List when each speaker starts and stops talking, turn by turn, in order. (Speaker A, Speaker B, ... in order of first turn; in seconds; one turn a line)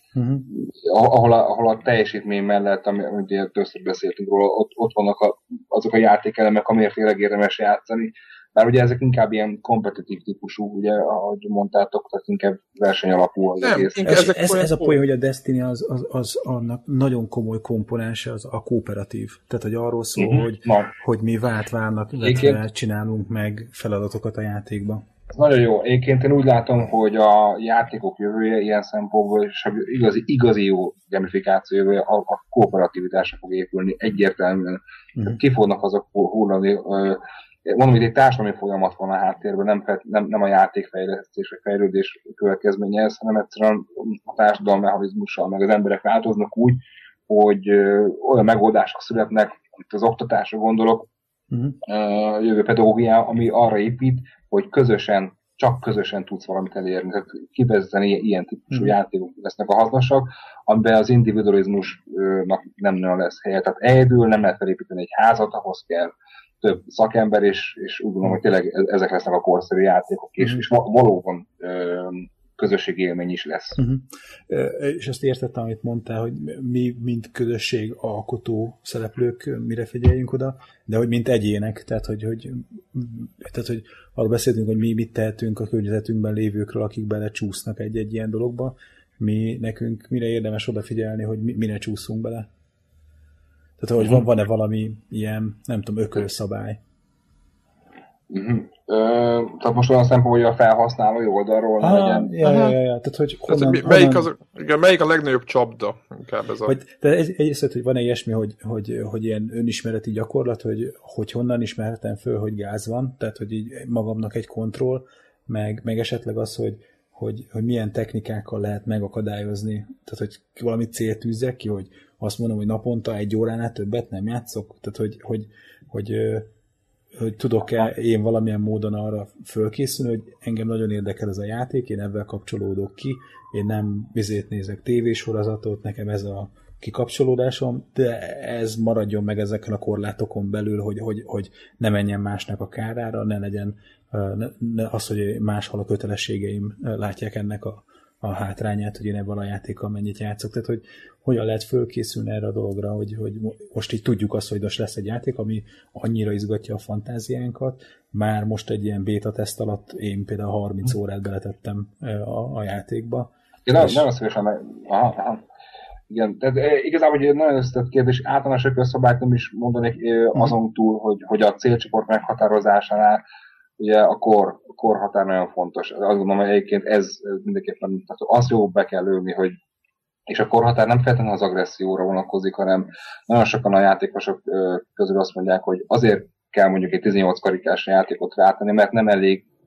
Speaker A: 0.1-0.5
Speaker B: 0.5-14.2
Speaker C: 13.6-15.0
Speaker A: 14.0-25.0
Speaker B: 20.1-20.9
Speaker B: 22.2-22.6
Speaker B: 25.3-51.1
Speaker A: 51.5-51.8
Speaker B: 51.8-73.8
Speaker A: 70.4-70.6
Speaker A: 73.8-92.5
Speaker A: 93.8-96.8
Speaker B: 98.3-102.3
Speaker A: 101.8-104.3
Speaker C: 102.4-102.8
Speaker C: 103.5-106.7
Speaker A: 106.6-126.5
Speaker A: 127.1-164.1
Speaker B: 163.7-165.4
Speaker B: 166.1-173.2
Speaker B: 173.8-179.6
Speaker B: 180.3-189.5